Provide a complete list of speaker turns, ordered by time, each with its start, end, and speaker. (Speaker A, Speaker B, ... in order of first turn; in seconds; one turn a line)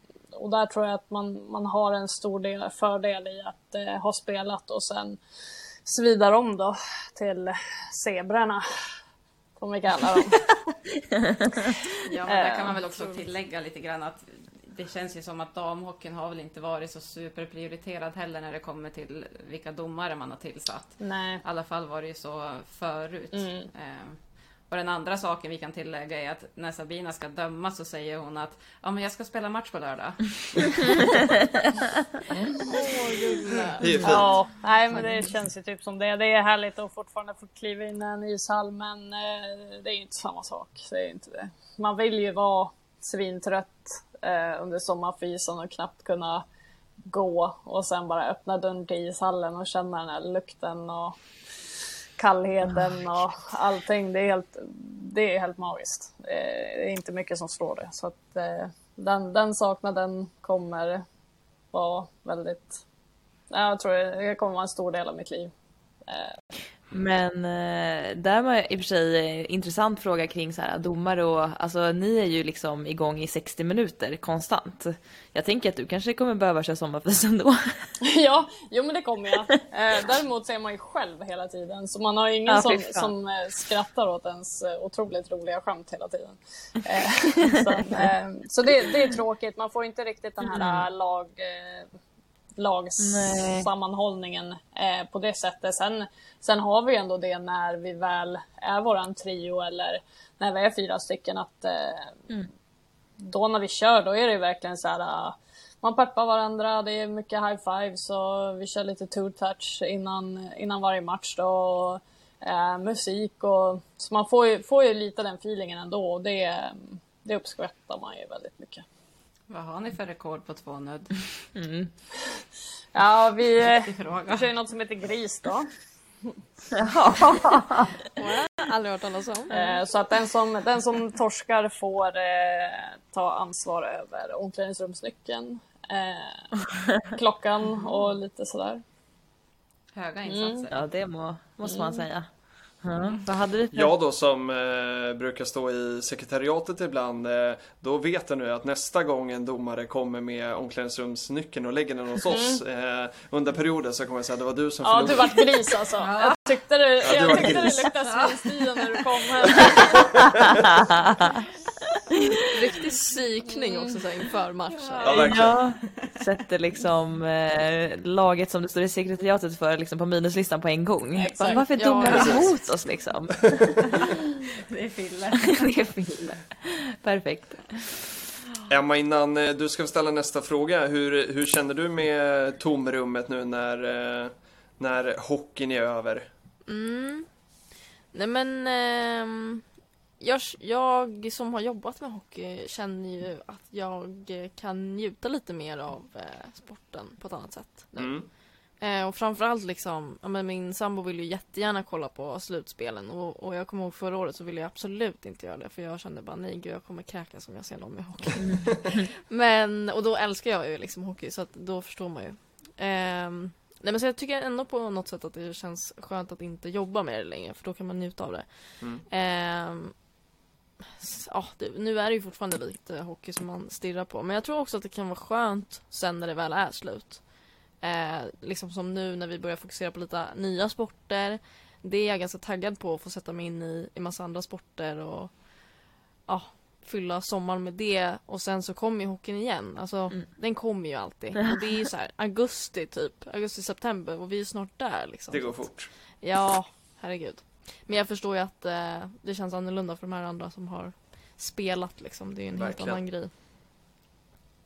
Speaker A: 0.3-5.2
Speaker A: 5.8-8.6
Speaker A: 9.6-10.5
Speaker B: 11.3-11.7
Speaker C: 12.0-30.8
Speaker A: 12.2-12.8
Speaker D: 12.8-13.2
Speaker A: 21.0-21.4
Speaker A: 23.3-23.7
Speaker D: 32.7-34.1
Speaker A: 33.5-46.4
Speaker E: 33.8-34.3
Speaker A: 47.1-51.1
Speaker A: 52.2-61.0
Speaker A: 61.7-62.8
Speaker A: 63.5-65.5
Speaker A: 66.1-66.3
Speaker B: 66.9-77.9
Speaker A: 78.0-91.9
Speaker B: 82.5-83.1
Speaker B: 90.5-90.8
Speaker A: 92.6-102.1
Speaker B: 93.0-93.7
Speaker A: 103.2-118.8
Speaker C: 119.5-121.1
Speaker B: 121.5-121.9
Speaker A: 122.9-125.7
Speaker C: 123.7-124.5
Speaker B: 126.7-127.9
Speaker D: 128.2-129.7
Speaker A: 129.5-136.4
Speaker A: 137.1-138.8
Speaker C: 139.9-140.8
Speaker A: 140.3-140.7
Speaker B: 140.7-142.3
Speaker A: 141.7-142.0
Speaker B: 142.8-143.9
Speaker E: 143.7-155.3
Speaker A: 152.3-152.6
Speaker A: 154.8-160.2
Speaker C: 156.0-158.6
Speaker E: 157.0-157.9
Speaker D: 162.5-165.2
Speaker A: 163.5-164.0
Speaker C: 164.8-165.5
Speaker E: 165.0-165.5
Speaker B: 165.2-173.7
Speaker A: 171.2-172.3
Speaker D: 171.4-172.6
Speaker E: 172.1-172.4
Speaker C: 174.6-175.7
Speaker B: 175.6-178.0
Speaker E: 178.7-186.3
Speaker D: 186.7-187.3
Speaker D: 188.1-189.6
Speaker D: 190.2-220.1
Speaker E: 197.9-198.3
Speaker B: 208.4-208.7
Speaker D: 221.0-253.3
Speaker E: 245.3-245.9
Speaker E: 252.5-253.0